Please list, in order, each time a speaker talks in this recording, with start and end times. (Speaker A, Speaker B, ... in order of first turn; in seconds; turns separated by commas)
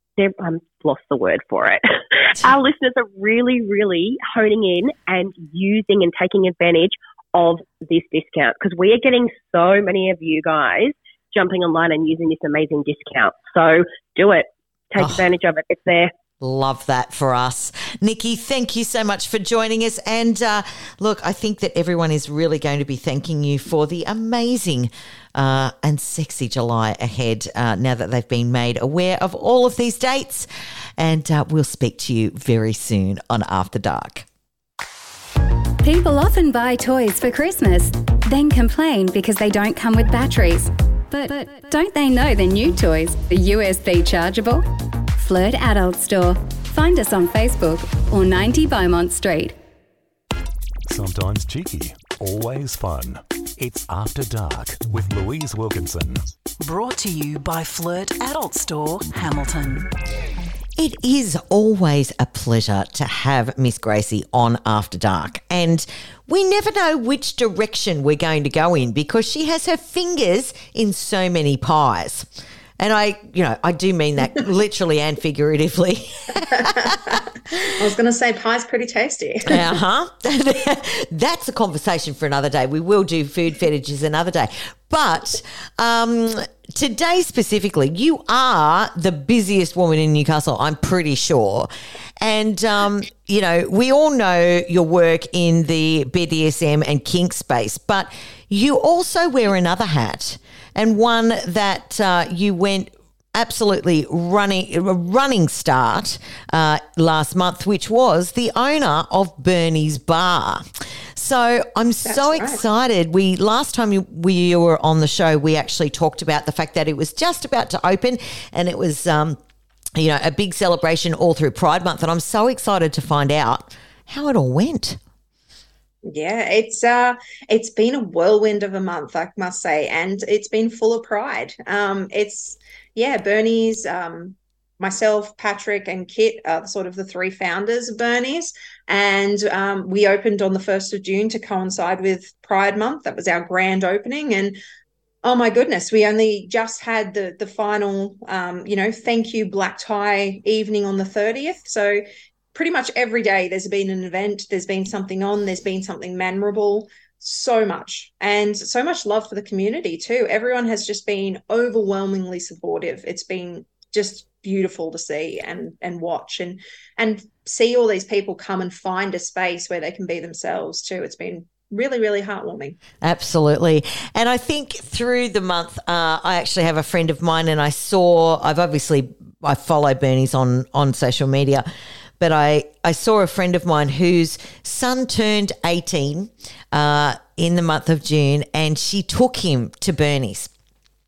Speaker A: 0.2-16.1, Speaker B: 15.0-15.2, Speaker B: 16.4-34.2, Speaker C: 35.8-49.6, Speaker D: 50.9-56.2, Speaker E: 56.6-59.9, Speaker B: 60.8-72.3, Speaker B: 72.8-77.7, Speaker F: 76.6-77.2, Speaker F: 77.8-79.6, Speaker B: 79.5-91.7, Speaker B: 92.2-119.4, Speaker F: 112.0-112.6, Speaker B: 120.0-125.0, Speaker F: 126.0-144.6, Speaker F: 145.2-152.0, Speaker F: 152.5-172.8, Speaker B: 173.0-181.7, Speaker B: 182.2-190.5